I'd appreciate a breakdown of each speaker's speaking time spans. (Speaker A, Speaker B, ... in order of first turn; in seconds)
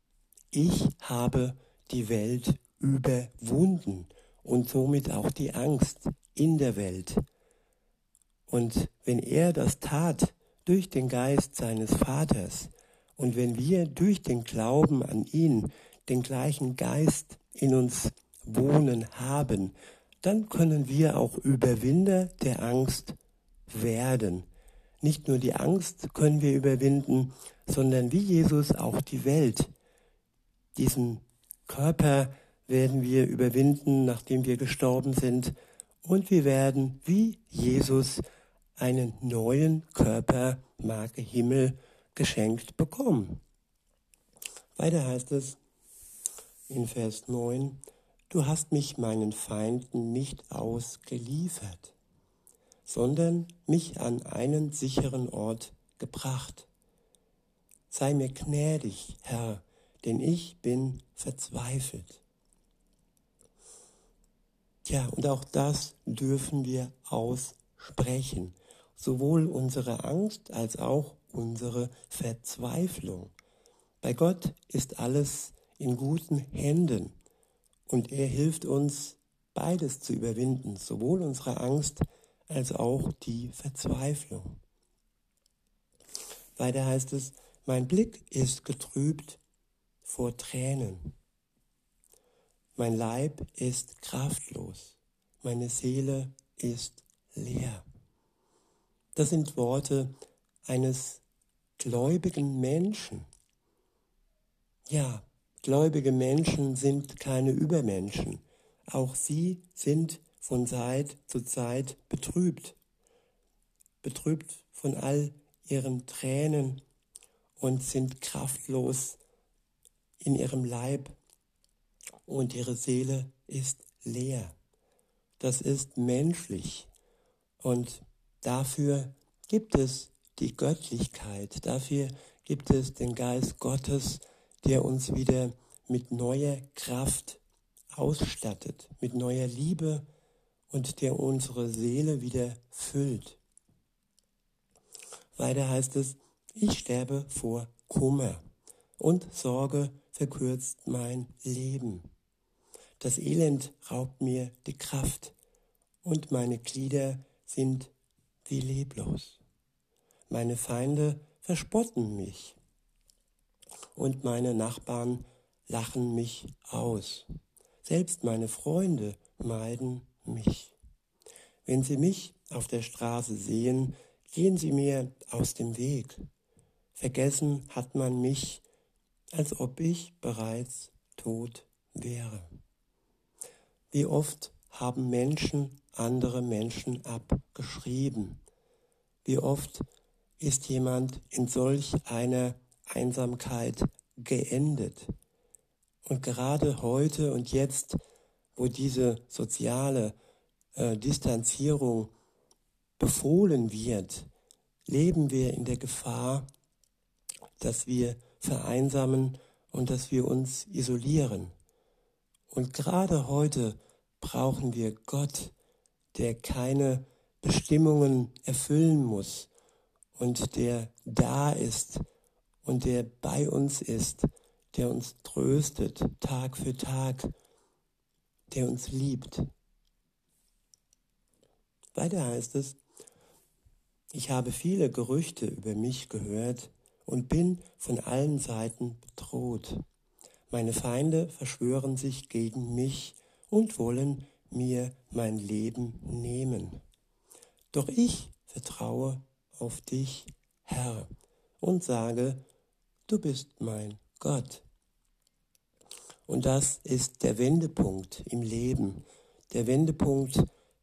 Speaker A: 0.5-7.2, 8.5-23.1, 23.7-24.5, 25.0-29.7, 30.7-38.2, 38.8-43.4, 44.8-45.6, 46.7-51.9, 52.9-56.7, 57.9-62.2, 64.8-73.3, 74.0-77.1, 77.9-84.6, 86.6-89.4, 90.0-91.1, 92.8-97.8, 99.1-101.2, 101.8-103.3, 104.9-112.8, 114.0-116.8, 117.6-119.2, 120.2-121.2, 122.2-124.5, 125.4-126.9, 127.6-137.4, 137.9-140.1, 140.7-143.4, 145.3-148.4, 149.0-152.1, 153.0-155.3, 156.0-157.9, 158.4-159.4, 160.3-162.6, 163.9-167.3, 167.8-170.8, 171.7-176.2, 176.9-178.6, 179.3-182.5, 183.9-188.4, 189.2-189.8, 190.4-195.1, 196.0-198.0, 198.6-200.1, 200.7-202.1, 203.0-204.3, 204.9-206.5, 207.6-211.5, 212.5-215.5, 216.1-219.5, 220.1-222.0, 222.6-227.3, 228.5-229.5, 231.9-232.8, 234.1-239.8, 240.5-246.8, 247.7-251.1, 251.6-252.4, 253.1-254.6, 256.3-260.5